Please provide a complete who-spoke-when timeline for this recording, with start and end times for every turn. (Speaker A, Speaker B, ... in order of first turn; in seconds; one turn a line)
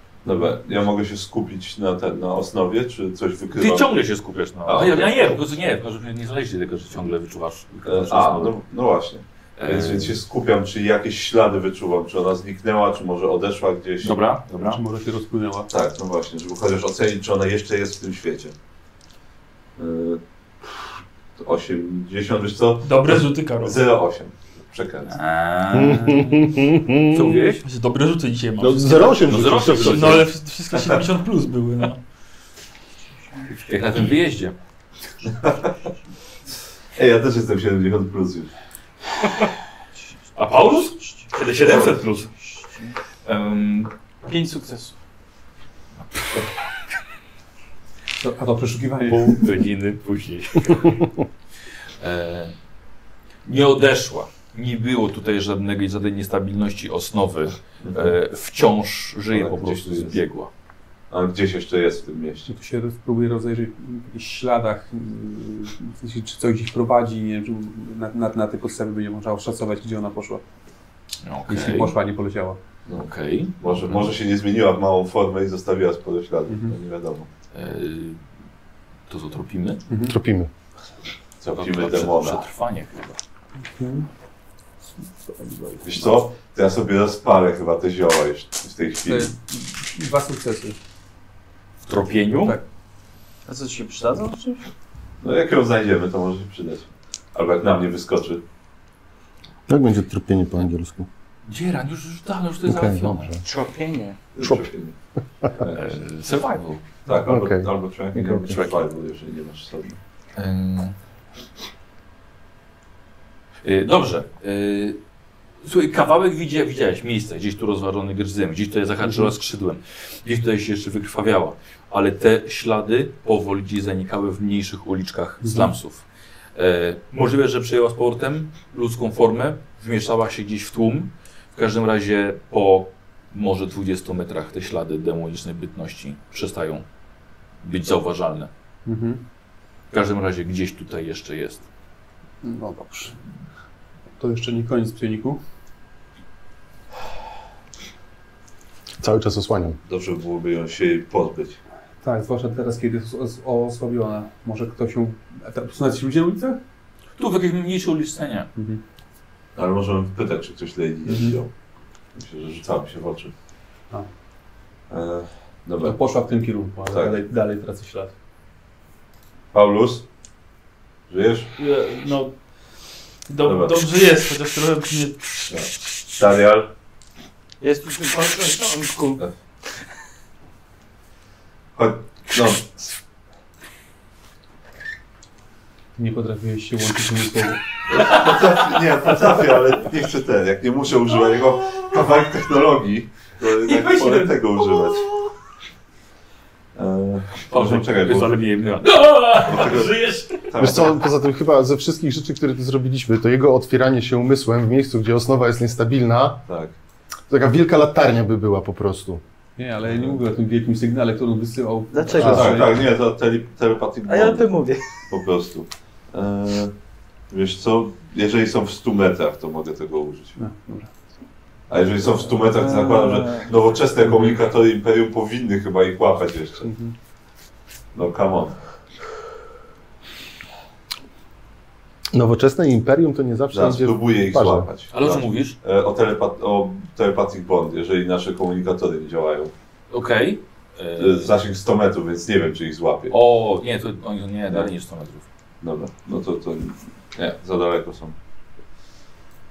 Speaker A: 0.2-4.0
Speaker B: 3.5-8.6
Speaker A: 4.7-5.4
Speaker A: 7.8-14.2
Speaker B: 9.6-10.2
Speaker B: 14.0-14.8
Speaker C: 14.6-15.7
Speaker A: 15.7-18.5
Speaker A: 19.8-25.2
Speaker D: 22.8-23.8
Speaker B: 25.1-27.6
Speaker E: 25.7-27.4
Speaker D: 27.6-32.0
Speaker E: 28.6-30.3
Speaker B: 29.1-30.3
Speaker A: 30.8-31.0
Speaker B: 33.5-34.6
Speaker A: 35.4-35.7
Speaker A: 37.0-38.5
Speaker B: 40.4-42.3
Speaker F: 40.9-41.2
Speaker F: 42.4-43.0
Speaker B: 43.2-43.9
Speaker F: 44.2-45.0
Speaker C: 48.2-49.6
Speaker B: 49.1-51.1
Speaker B: 52.0-52.5
Speaker B: 53.5-60.5
Speaker A: 57.8-58.1
Speaker A: 59.3-60.2
Speaker A: 61.1-62.5
Speaker C: 62.5-70.4
Speaker B: 71.2-72.0
Speaker C: 71.5-72.6
Speaker A: 72.9-77.3
Speaker B: 73.0-74.1
Speaker C: 76.5-76.7
Speaker B: 77.5-78.2
Speaker B: 79.1-79.8
Speaker C: 79.9-80.2
Speaker E: 80.1-80.5
Speaker A: 81.4-82.5
Speaker B: 81.5-83.2
Speaker C: 83.6-84.1
Speaker C: 85.2-86.1
Speaker A: 85.8-89.3
Speaker C: 89.0-90.8
Speaker B: 91.8-92.6
Speaker C: 92.4-92.6
Speaker F: 93.5-94.7
Speaker A: 95.2-98.4
Speaker E: 99.7-101.1
Speaker B: 101.5-103.4
Speaker E: 102.7-103.4
Speaker F: 103.4-104.2
Speaker A: 104.3-105.0
Speaker A: 105.5-106.0
Speaker B: 105.7-106.9
Speaker A: 107.0-110.0
Speaker E: 107.1-108.6
Speaker B: 110.4-111.0
Speaker B: 113.6-115.0
Speaker B: 115.6-126.0
Speaker C: 119.0-119.3
Speaker C: 125.4-125.7
Speaker B: 126.5-136.8
Speaker B: 137.6-138.5
Speaker C: 138.9-139.2
Speaker B: 139.9-141.6
Speaker C: 142.4-143.2
Speaker C: 144.2-145.4
Speaker E: 149.0-149.8
Speaker A: 149.8-151.6
Speaker C: 152.0-156.6
Speaker B: 157.2-158.5
Speaker C: 158.6-158.8
Speaker A: 159.6-161.5
Speaker C: 161.1-161.4
Speaker A: 162.2-163.3
Speaker A: 164.9-166.0
Speaker C: 165.8-168.1
Speaker A: 166.9-167.2
Speaker A: 169.5-170.1
Speaker A: 171.1-171.5
Speaker D: 171.6-172.3
Speaker D: 173.3-175.3
Speaker A: 173.4-173.8
Speaker A: 175.5-176.7
Speaker F: 177.6-179.2
Speaker A: 181.8-183.0
Speaker C: 186.0-187.7
Speaker A: 187.9-195.1
Speaker F: 193.7-195.3
Speaker A: 196.8-198.4
Speaker B: 197.5-200.5
Speaker A: 199.4-201.0
Speaker E: 200.6-206.5
Speaker A: 206.5-206.8
Speaker E: 207.3-209.2
Speaker C: 209.6-212.8
Speaker A: 209.8-210.2
Speaker F: 211.9-212.5
Speaker A: 212.2-214.5
Speaker E: 212.2-212.6
Speaker F: 214.1-215.0
Speaker A: 215.1-216.7
Speaker A: 217.3-220.4
Speaker C: 220.4-220.9
Speaker A: 221.7-226.7
Speaker F: 222.6-223.5
Speaker C: 226.7-226.9
Speaker A: 227.9-228.6
Speaker E: 232.1-234.7
Speaker A: 233.5-239.5
Speaker B: 234.9-235.6
Speaker B: 239.9-241.3
Speaker A: 241.0-243.2
Speaker B: 243.1-245.2
Speaker A: 245.6-248.2